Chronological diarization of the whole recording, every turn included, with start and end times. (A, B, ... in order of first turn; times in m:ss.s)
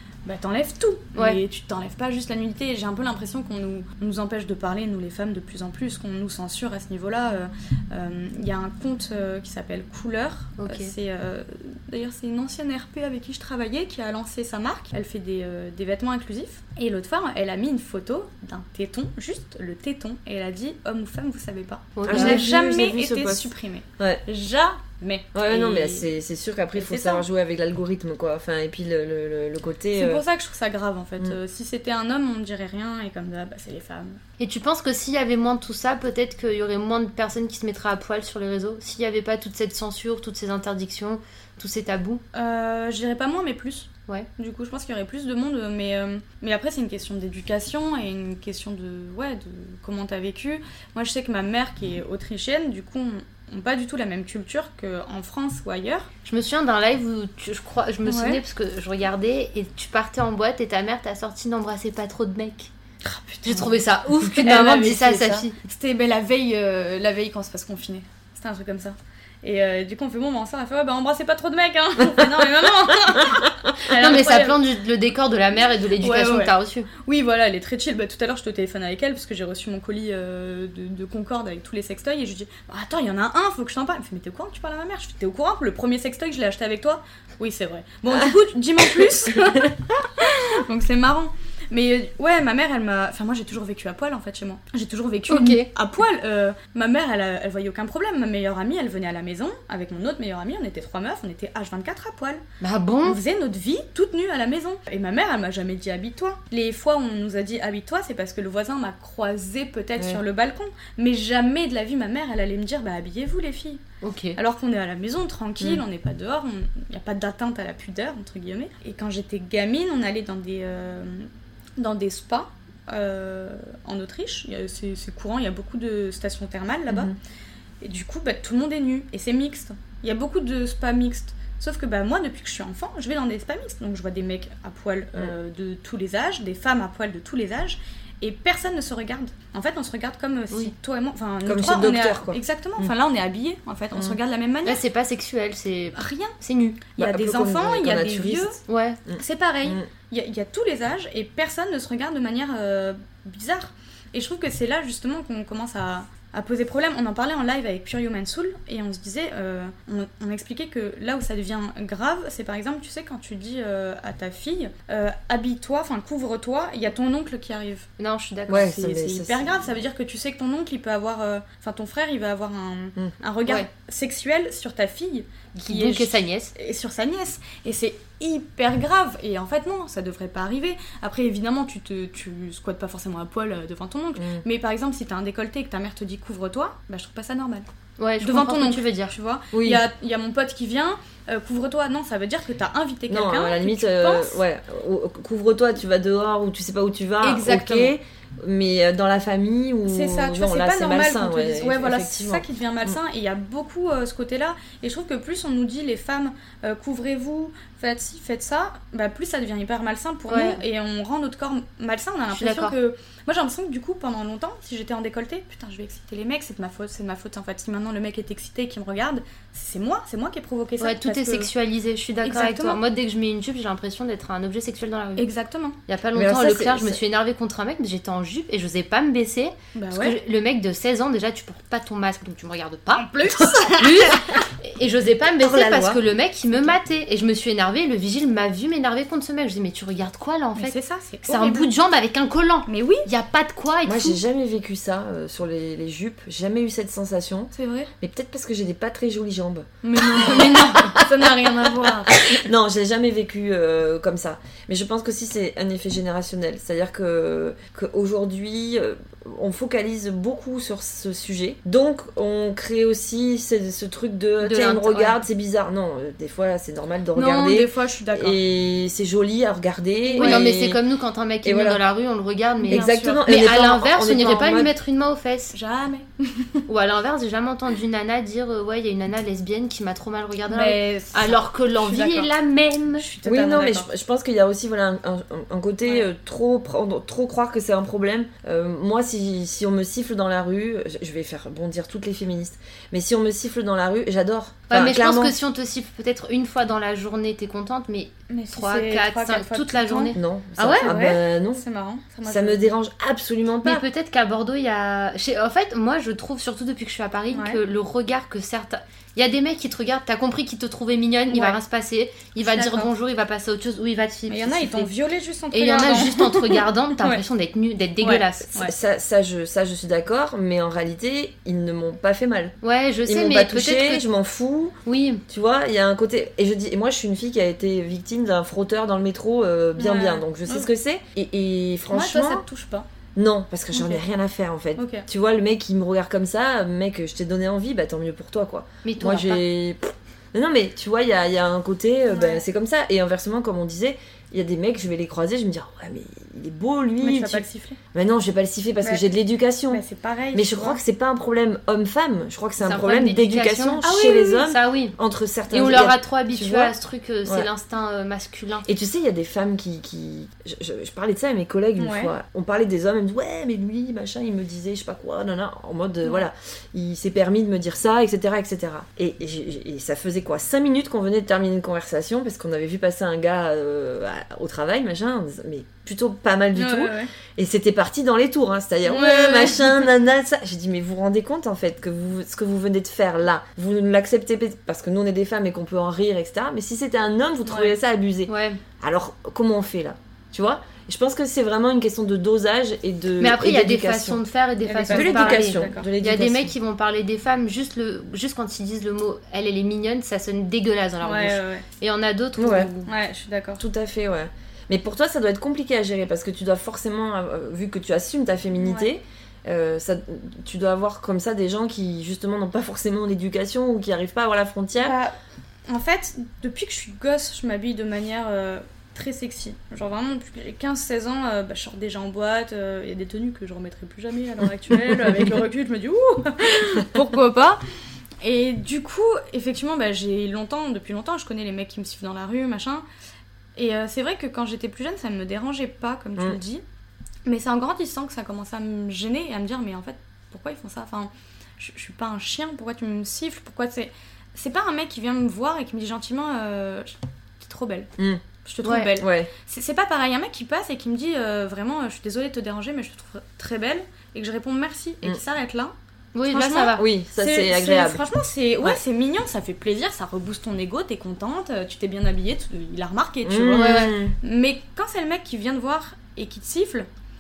0:00.2-0:26.1 A
0:10.6-0:10.9 B
0:22.0-0:22.5 B
0:22.0-0:24.2 C
0:25.3-0:30.2 C
0:26.8-0:27.2 A
0:29.9-0:34.2 A
0:34.4-0:42.2 B
0:42.3-0:56.1 A
0:56.2-1:02.7 B
0:58.0-0:58.4 A
1:03.0-1:03.8 A
1:03.4-1:05.5 B
1:04.4-1:14.6 A
1:13.9-1:16.9 B
1:16.0-1:42.4 A
1:35.3-1:35.7 B
1:42.6-1:43.2 B
1:43.0-1:53.8 A
1:54.0-1:54.4 B
1:54.4-2:07.1 A
2:06.9-2:07.1 C
2:07.8-2:24.8 A
2:21.4-2:22.9 C
2:24.6-2:26.8 B
2:26.0-2:26.3 A
2:26.9-2:28.6 A
2:27.0-2:28.5 C
2:28.7-2:29.0 B
2:29.0-2:29.8 C
2:29.2-2:47.9 A
2:48.0-2:48.7 B
2:48.5-2:49.8 C
2:48.5-3:07.7 A
2:55.6-2:56.5 B
3:04.2-3:04.4 C
3:08.0-3:09.1 B
3:08.2-3:14.4 A
3:09.5-3:09.8 C
3:13.1-3:23.0 C
3:17.2-3:17.9 A
3:19.8-3:41.5 A
3:30.3-3:30.6 B
3:32.3-3:32.7 B
3:40.8-3:45.3 B
3:42.2-3:42.8 A
3:45.2-3:45.8 A
3:45.9-4:04.2 B
3:46.1-3:47.0 C
3:49.7-3:50.2 A
3:52.9-3:54.4 A
3:55.4-3:56.0 C
4:00.5-4:01.7 A
4:02.7-4:03.1 A
4:03.8-4:30.8 C
4:07.5-4:07.9 A
4:09.8-4:12.4 A
4:24.4-4:25.2 B
4:27.1-4:28.4 A
4:30.1-4:30.4 A
4:30.1-4:35.5 B
4:31.4-4:31.8 C
4:32.6-4:33.3 A
4:32.7-4:34.7 C
4:35.5-4:36.6 A
4:36.7-4:43.0 B
4:40.5-4:42.3 A
4:43.0-4:43.9 A
4:43.2-4:55.4 C
4:54.7-5:00.9 B
4:58.3-5:02.7 A
5:00.1-5:01.6 C
5:02.2-5:03.8 C
5:03.6-5:14.9 B
5:07.3-5:07.6 A
5:11.3-5:11.6 A
5:12.4-5:12.9 A
5:14.3-5:17.2 A
5:15.5-5:18.5 B
5:18.0-5:18.7 A
5:18.5-5:24.8 C
5:22.6-5:24.0 B
5:24.8-5:25.2 B
5:25.3-5:32.4 C
5:29.8-5:30.7 A
5:31.9-5:32.9 A
5:33.2-5:56.7 C
5:33.7-5:34.0 A
5:34.8-5:35.0 A
5:38.8-5:39.4 B
5:42.1-5:42.4 A
5:47.0-5:47.8 A
5:49.7-5:50.8 A
5:52.6-5:53.9 B
5:53.8-5:54.5 A
5:54.4-5:54.9 B
5:55.5-5:58.7 B
5:58.6-6:34.2 C
6:01.8-6:02.1 A
6:16.5-6:17.1 A
6:18.8-6:19.8 A
6:27.4-6:27.8 A
6:28.3-6:28.6 B
6:33.2-6:42.9 B
6:34.6-6:35.9 A
6:34.9-6:36.5 C
6:41.0-6:41.6 A
6:42.4-6:42.7 C
6:42.8-6:43.6 A
6:43.6-6:55.0 C
6:48.6-6:48.9 A
6:54.8-6:55.1 A
6:55.7-7:07.6 A
7:08.2-7:12.8 A
7:13.6-7:16.6 A
7:17.2-7:27.9 A
7:28.0-7:28.2 C
7:28.4-7:35.7 A
7:28.6-7:28.9 B
7:29.0-7:29.3 C
7:36.1-7:36.8 B
7:36.3-7:46.9 A
7:36.8-7:38.0 C
7:43.2-7:44.1 C
7:43.5-7:44.0 B